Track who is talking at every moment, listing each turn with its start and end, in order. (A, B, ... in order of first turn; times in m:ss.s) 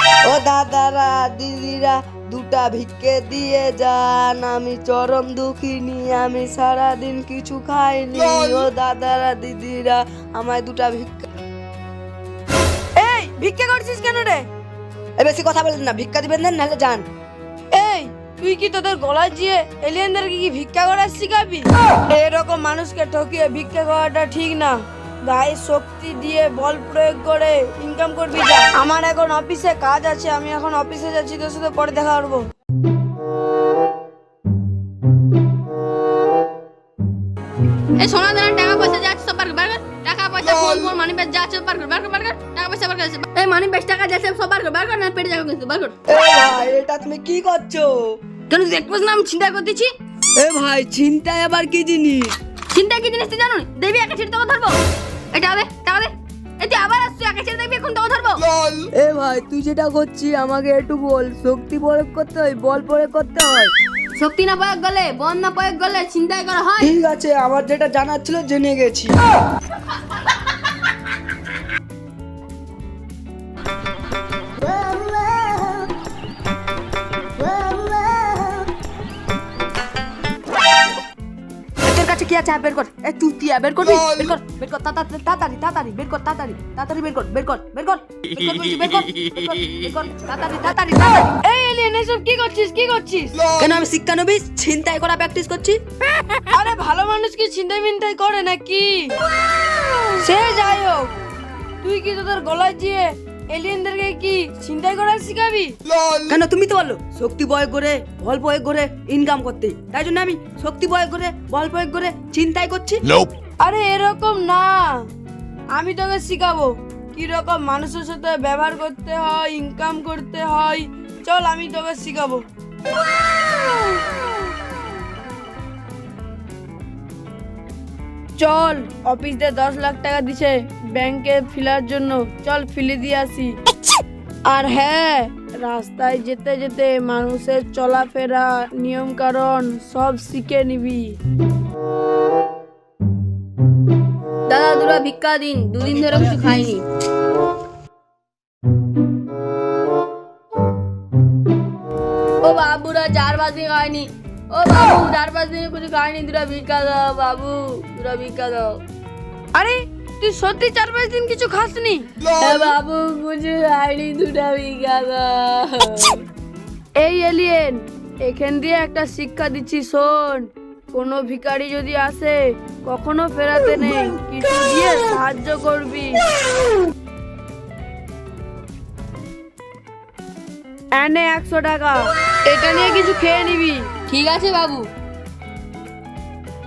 0:00.2-0:11.2 A
0:13.0-0:14.5 B
0:15.2-0:17.0 A
0:17.7-0:32.5 B
0:38.0-0:46.0 C
0:46.1-0:48.2 A
0:48.5-0:49.9 C
0:50.4-0:52.4 A
0:52.7-0:54.8 C
0:55.3-0:58.5 C
0:58.9-1:03.7 A
1:04.2-1:06.9 C
1:06.8-1:09.2 A
1:14.6-1:15.9 A
1:17.4-1:18.7 A
1:21.8-1:31.4 A
1:31.4-1:33.4 B
1:33.6-1:35.8 A
1:36.5-1:39.2 B
1:40.2-1:41.1 B
1:41.8-1:45.8 B
1:46.3-1:53.0 A
1:53.6-1:55.1 B
1:55.8-2:02.4 B
2:08.4-2:13.6 B
2:14.5-2:21.2 B
2:24.5-2:26.8 C
2:32.4-2:38.8 C
2:39.6-2:42.1 B
2:42.4-2:46.2 C
2:47.0-2:56.2 B
3:00.9-3:03.9 B
3:04.1-3:04.9 C